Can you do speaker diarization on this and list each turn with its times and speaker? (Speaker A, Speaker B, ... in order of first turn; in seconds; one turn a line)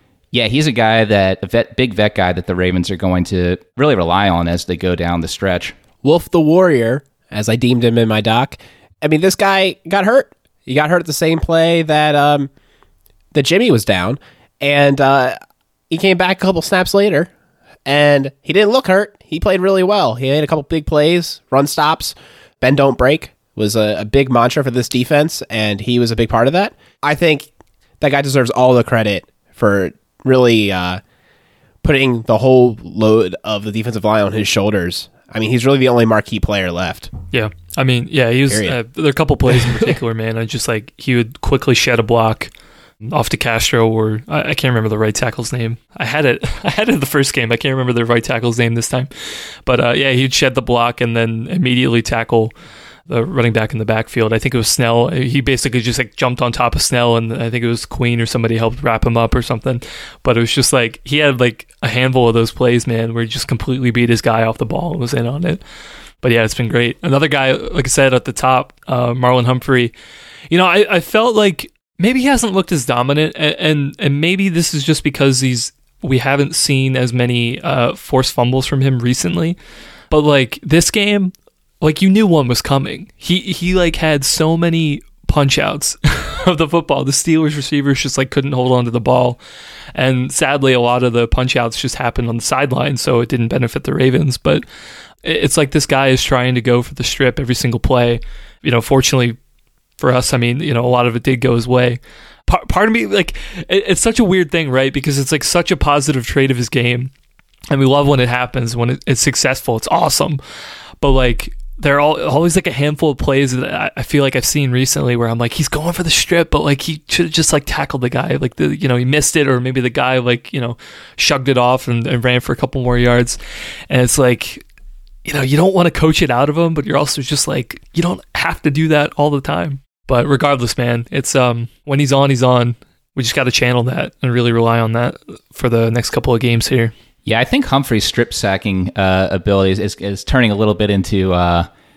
Speaker A: 0.3-5.8
Speaker B: 6.0-12.5
Speaker B: 13.3-15.4
Speaker B: 15.9-17.3
Speaker B: 17.9-27.5
Speaker B: 28.0-31.0
Speaker B: 31.8-37.1
Speaker C: 37.3-49.1
Speaker B: 38.5-38.8
Speaker C: 49.6-52.5
Speaker C: 53.1-65.6
Speaker C: 66.2-69.9
Speaker C: 70.5-79.6
Speaker C: 80.1-89.4
Speaker C: 90.0-94.6
Speaker C: 95.2-99.4
Speaker C: 100.0-107.1
Speaker C: 107.7-110.4
Speaker C: 111.0-123.4
Speaker C: 123.9-124.7
Speaker C: 125.2-136.9
Speaker A: 137.2-141.7